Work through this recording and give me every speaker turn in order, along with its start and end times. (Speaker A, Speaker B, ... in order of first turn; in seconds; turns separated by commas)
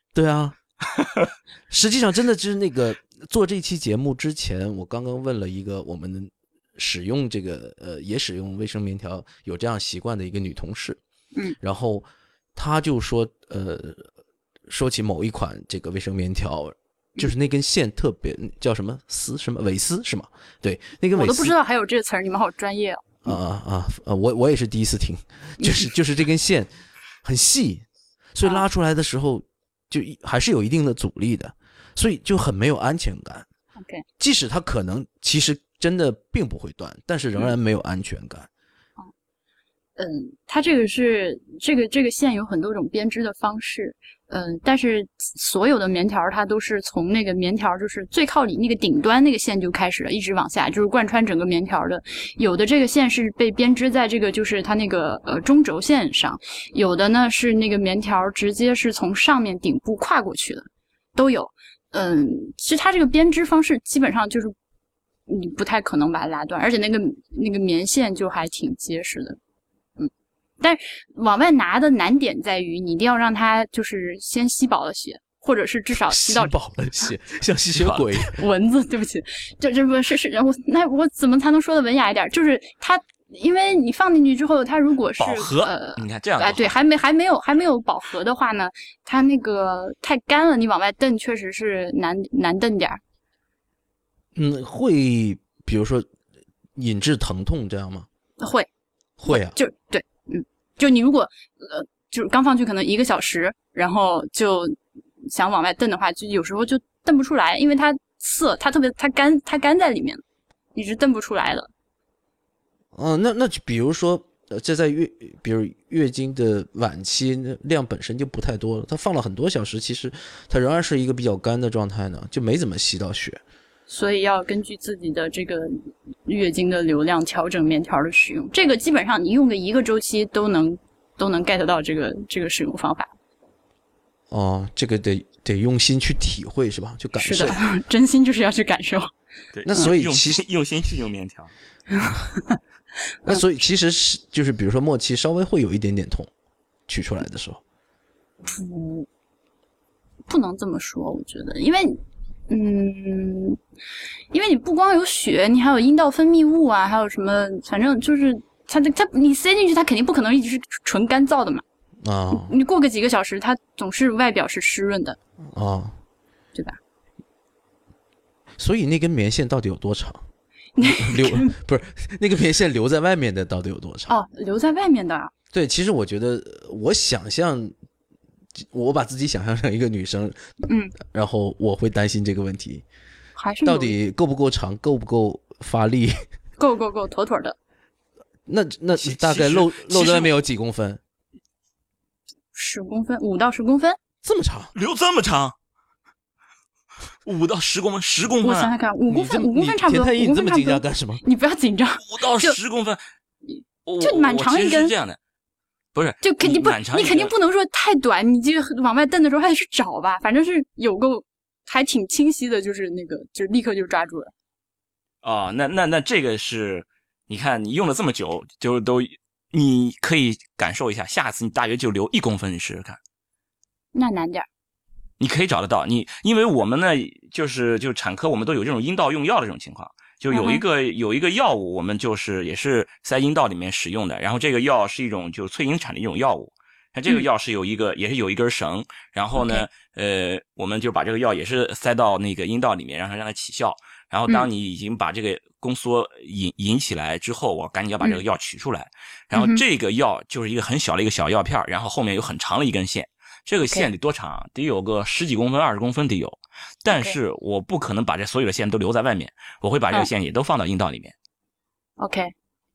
Speaker A: 0.1-0.6, Speaker A: 1.7-11.0, Speaker A: 11.6-14.1, Speaker A: 14.7-21.5, Speaker B: 21.1-23.4, Speaker A: 23.2-26.7, Speaker B: 25.6-25.9, Speaker A: 27.2-33.5, Speaker B: 33.8-34.0, Speaker A: 34.2-38.5, Speaker B: 40.0-64.5, Speaker B: 65.3-69.4, Speaker B: 70.0-76.5, Speaker A: 76.1-78.4, Speaker C: 77.8-78.1, Speaker B: 78.3-93.0, Speaker C: 85.2-86.8, Speaker A: 94.4-96.1, Speaker A: 96.8-98.1, Speaker B: 98.4-98.7, Speaker A: 99.2-99.6, Speaker B: 99.3-110.2, Speaker B: 110.8-111.7, Speaker A: 113.0-123.4, Speaker B: 123.9-133.1, Speaker A: 134.3-137.6, Speaker B: 137.2-139.1, Speaker C: 139.5-141.5, Speaker A: 139.7-140.4, Speaker B: 141.9-142.6, Speaker A: 143.3-146.3, Speaker A: 146.9-147.6, Speaker B: 148.4-149.1, Speaker B: 150.3-153.6, Speaker B: 154.3-161.6, Speaker A: 162.0-162.6, Speaker B: 162.3-165.2, Speaker A: 165.5-166.0, Speaker A: 168.6-170.2, Speaker B: 170.8-171.5, Speaker A: 170.8-174.1, Speaker B: 174.1-175.3, Speaker A: 175.5-177.7, Speaker A: 178.6-180.4, Speaker B: 180.7-180.9, Speaker A: 181.0-182.8, Speaker B: 183.4-184.0, Speaker A: 183.7-186.2, Speaker B: 186.6-187.6, Speaker A: 188.5-191.0, Speaker C: 189.0-190.3, Speaker B: 192.6-194.0, Speaker A: 194.2-194.7, Speaker C: 194.7-195.6, Speaker C: 197.2-198.7, Speaker B: 198.4-202.6, Speaker A: 199.1-201.2, Speaker C: 202.0-203.0, Speaker B: 203.5-204.9, Speaker C: 203.9-205.2, Speaker C: 205.9-207.3, Speaker B: 206.2-214.3, Speaker C: 215.2-223.0, Speaker B: 223.9-224.5, Speaker C: 225.2-261.1, Speaker B: 230.3-230.6, Speaker B: 239.4-239.7, Speaker B: 249.3-249.6, Speaker B: 253.6-253.9, Speaker B: 256.9-257.2, Speaker B: 262.0-262.3